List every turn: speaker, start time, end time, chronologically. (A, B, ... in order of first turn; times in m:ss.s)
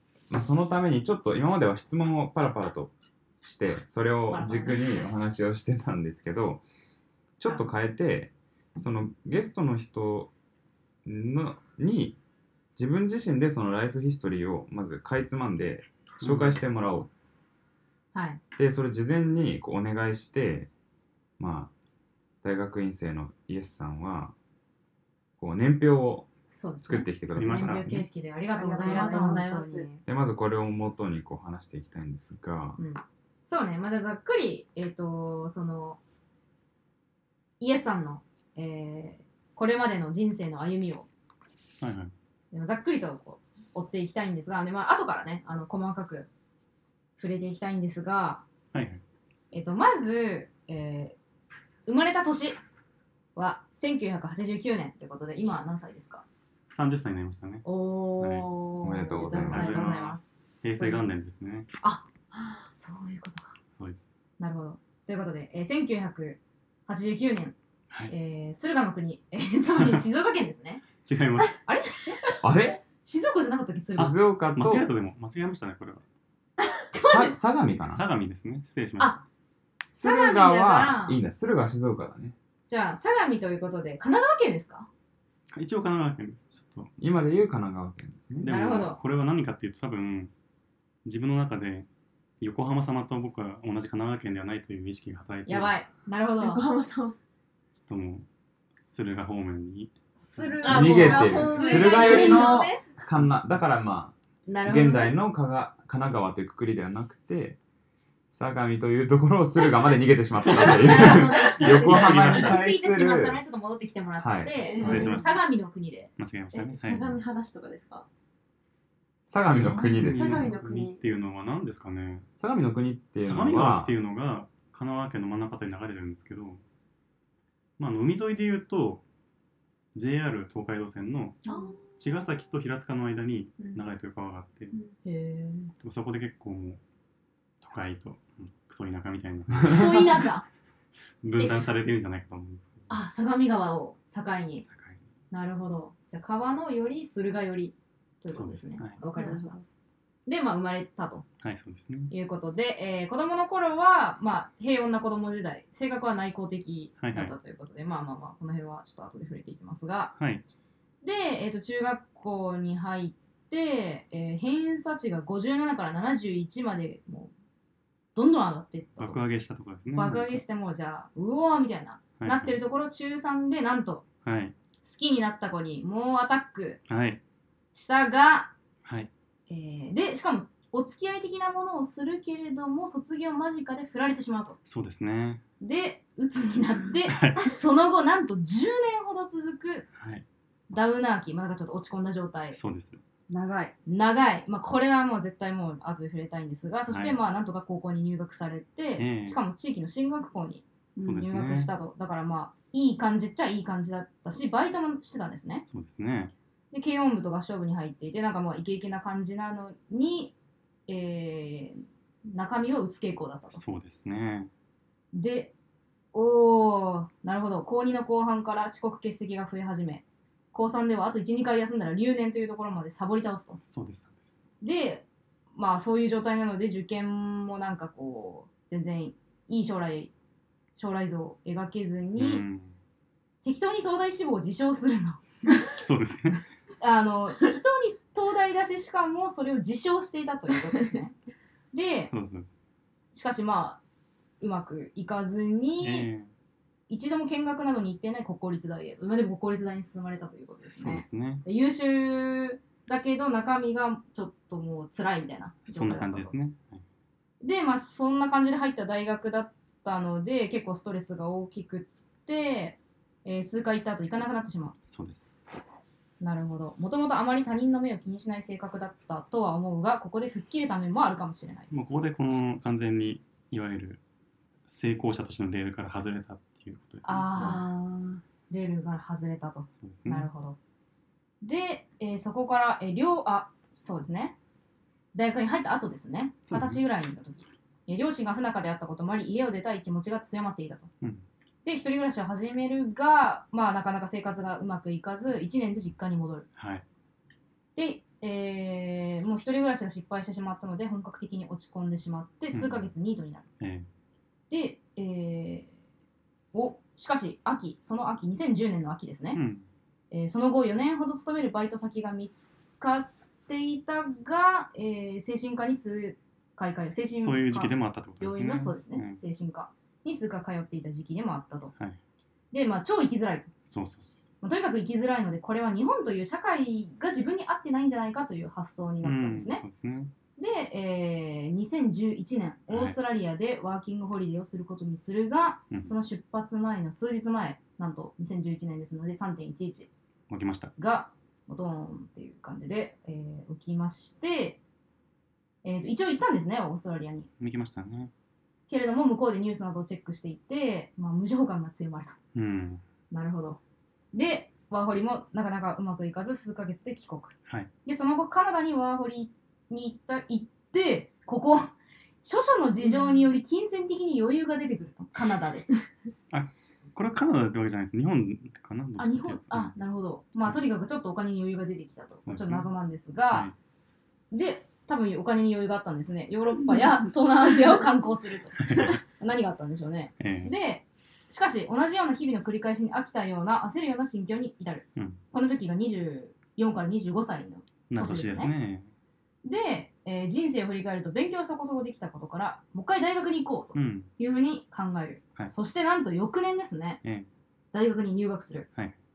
0:00.3-0:06.6 A
0:04.3-0:04.8 B
0:07.4-0:10.3 A
0:11.0-0:12.2 A
0:12.8-0:17.1 A
0:16.2-0:16.6 C
0:18.1-0:18.4 B
0:18.6-0:20.7 A
0:21.4-0:21.7 A
0:22.4-0:24.3 A
0:25.4-0:26.3 A
0:26.6-0:30.0 B
0:26.8-0:28.1 A
0:27.3-0:28.1 C
0:28.5-0:29.7 D
0:28.7-0:29.9 E
0:30.0-0:32.8 A
0:32.8-0:36.0 B
0:37.6-0:41.1 B
0:41.8-0:42.1 C
0:42.5-0:46.3 B
0:47.2-0:48.4 B
0:48.7-0:49.0 C
0:49.5-0:51.2 B
0:51.9-0:52.6 B
0:53.4-0:56.2 B
0:56.7-0:57.7 C
0:57.6-1:01.1 B
0:58.2-0:58.5 C
0:58.8-1:00.0 A
0:59.3-1:01.7 C
1:01.8-1:02.1 B
1:02.6-1:03.6 B
1:04.4-1:07.6 B
1:08.1-1:10.8 B
1:09.8-1:10.0 C
1:11.0-1:11.6 C
1:11.6-1:12.2 B
1:12.4-1:12.8 A
1:12.9-1:14.1 B
1:14.0-1:14.9 A
1:14.0-1:16.0 C
1:17.0-1:18.0 A
1:17.9-1:19.2 C
1:19.9-1:22.4 A
1:20.0-1:21.2 B
1:22.7-1:24.9 B
1:25.5-1:26.9 C
1:27.0-1:28.5 A
1:28.4-1:30.3 C
1:28.4-1:29.0 B
1:31.0-1:31.9 C
1:32.4-1:35.8 C
1:35.5-1:36.6 B
1:36.4-1:37.2 E
1:37.7-1:40.7 C
1:40.2-1:42.6 D
1:40.6-1:42.8 B
1:40.6-1:42.4 E
1:40.7-1:47.6 A
1:44.5-1:45.2 B
1:48.3-1:53.4 A
1:50.4-1:52.6 C
1:50.5-1:56.1 B
1:54.2-1:55.2 A
1:54.6-1:55.3 E
1:54.8-1:55.4 C
1:56.2-1:57.2 C
1:56.5-1:58.1 E
1:59.3-2:00.5 A
1:59.5-2:02.3 C
2:00.0-2:01.0 E
2:02.4-2:03.9 A
2:03.2-2:06.6 C
2:07.8-2:09.0 C
2:09.9-2:11.4 C
2:11.5-2:11.8 B
2:12.0-2:14.8 C
2:15.0-2:15.7 B
2:15.8-2:16.8 C
2:17.6-2:20.3 C
2:19.6-2:20.4 B
2:21.2-2:22.9 C
2:21.4-2:21.6 B
2:22.9-2:24.6 B
2:24.7-2:25.0 C
2:25.3-2:29.6 B
2:28.3-2:29.0 C
2:29.2-2:29.6 E
2:30.3-2:31.2 B
2:31.4-2:32.1 C
2:32.1-2:40.1 B
2:37.0-2:37.4 C
2:40.2-2:40.4 C
2:41.0-2:47.3 B
2:48.2-2:49.2 B
2:49.0-2:50.4 C
2:50.0-2:54.0 B
2:52.2-2:52.6 C
2:54.2-2:54.6 C
2:54.8-2:56.8 B
2:56.9-2:57.2 C
2:57.7-2:58.5 B
2:58.8-2:59.1 C
2:59.5-3:04.6 B
3:04.7-3:05.4 C
3:05.6-3:09.9 B
3:07.1-3:07.6 C
3:10.0-3:10.2 C
3:10.7-3:12.6 B
3:12.5-3:13.0 C
3:13.3-3:13.8 D
3:13.9-3:25.6 B
3:16.9-3:17.2 C
3:19.0-3:19.4 C
3:21.0-3:21.3 D
3:21.0-3:21.7 C
3:25.7-3:26.3 C
3:26.7-3:30.4 B
3:30.9-3:33.6 B
3:33.5-3:34.5 C
3:35.1-3:35.5 B
3:36.1-3:43.6 B
3:43.6-3:44.4 C
3:44.6-3:50.1 B
3:50.8-3:52.4 B
3:52.2-3:52.8 C
3:53.4-3:55.2 B
3:55.7-3:56.4 C
3:56.8-4:01.2 B
4:01.7-4:02.1 B
4:02.1-4:02.5 C
4:03.1-4:03.8 B
4:04.4-4:06.1 B
4:05.8-4:06.3 C
4:06.9-4:16.3 B
4:10.7-4:11.4 C
4:15.7-4:16.8 C
4:17.4-4:24.8 B
4:24.9-4:25.3 C
4:26.2-4:31.7 B
4:31.7-4:34.0 C
4:34.7-4:37.3 C
4:37.0-4:37.7 B
4:37.4-4:38.1 E
4:37.4-4:38.2 D
4:38.5-4:40.6 B
4:39.8-4:40.3 C
4:41.4-4:44.4 B
4:45.1-4:50.9 B
4:46.5-4:46.8 C
4:51.6-4:56.5 B
4:56.6-4:56.8 C
4:57.8-5:03.5 B
5:02.5-5:02.9 C
5:03.6-5:03.9 C
5:04.5-5:05.7 B
5:06.5-5:09.4 B
5:09.3-5:09.7 C
5:10.1-5:21.7 B
5:17.1-5:19.2 C
5:22.5-5:23.5 B
5:23.7-5:24.2 C
5:24.4-5:29.6 B
5:29.0-5:30.1 C
5:30.4-5:39.9 B
5:32.7-5:33.0 C
5:40.3-5:40.7 C
5:40.8-5:44.6 B
5:45.6-5:47.3 B
5:47.4-5:48.1 C
5:48.7-5:52.2 B
5:52.3-5:52.8 C
5:53.1-5:53.6 B
5:54.1-5:57.3 B
5:57.9-6:05.7 B
6:06.3-6:09.8 C
6:09.0-6:13.5 B
6:12.2-6:12.7 C
6:13.3-6:13.6 C
6:14.3-6:28.5 B
6:18.6-6:19.0 C
6:20.2-6:20.5 C
6:25.0-6:25.2 C
6:27.9-6:28.9 C
6:29.4-6:37.0 B
6:33.7-6:34.1 C
6:37.7-6:38.7 B